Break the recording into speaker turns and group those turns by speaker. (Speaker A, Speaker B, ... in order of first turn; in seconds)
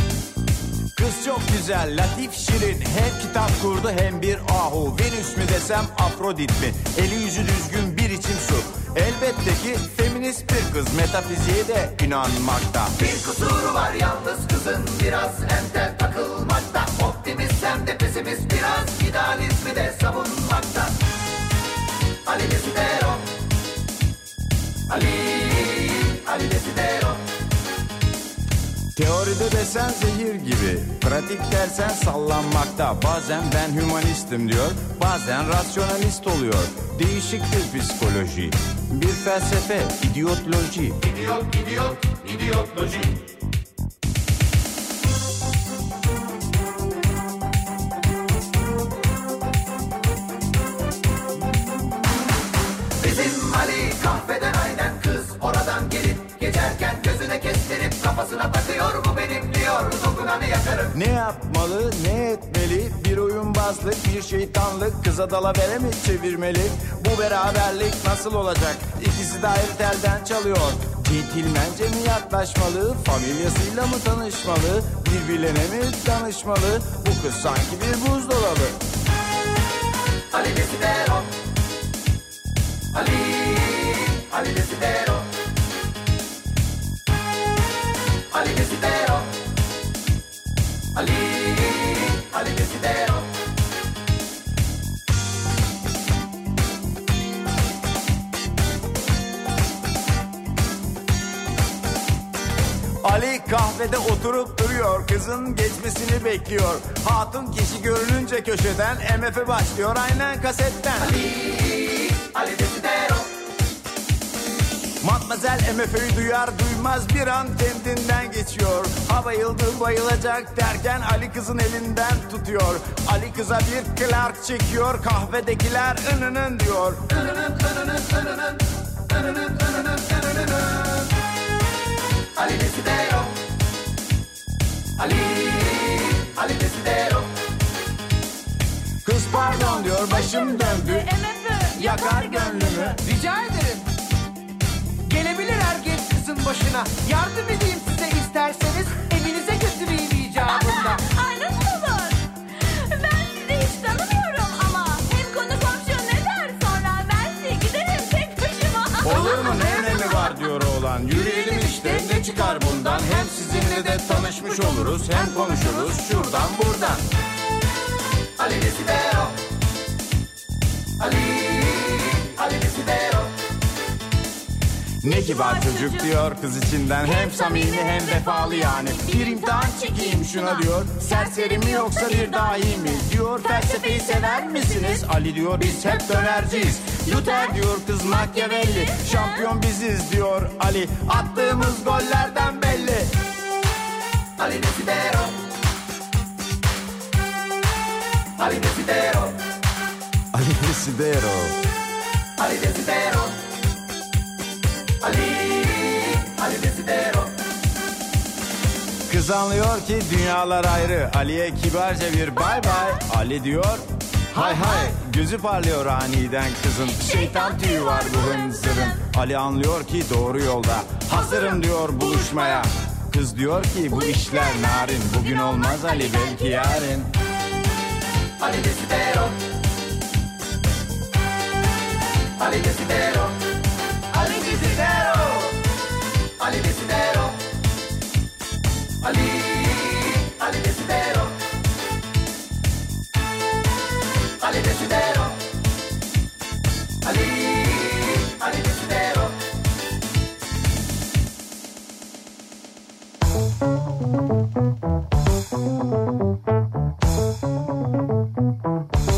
Speaker A: 0.9-12.9, 28.9-41.0, 60.9-78.8, 103.0-111.1, 115.0-127.1, 139.0-141.1, 141.8-143.0, 159.0-167.1, 175.0-193.1, 200.3-201.6, 209.1-227.1
Speaker B: 13.0-20.9, 22.2-23.3, 24.9-27.2, 41.0-43.1, 53.0-61.0, 80.3-81.3, 82.9-85.3, 88.3-89.3, 91.0-93.3, 111.0-113.3, 127.1-128.6, 129.1-130.9, 132.3-133.4, 135.0-137.3, 168.4-169.4, 171.0-173.3, 194.4-195.4, 198.4-199.4, 202.4-203.4, 205.0-207.3, 228.4-229.4, 232.4-233.4, 234.1-235.5, 236.4-237.4, 239.0-241.4, 244.4-245.4, 247.0-249.4
Speaker C: 139.3-142.9, 150.5-160.4, 161.1-166.4, 175.0-176.2, 177.0-185.1, 186.6-189.5, 212.4-213.1, 217.0-219.1, 221.1-222.7, 223.9-226.9
Speaker D: 142.9-143.9, 145.1-151.0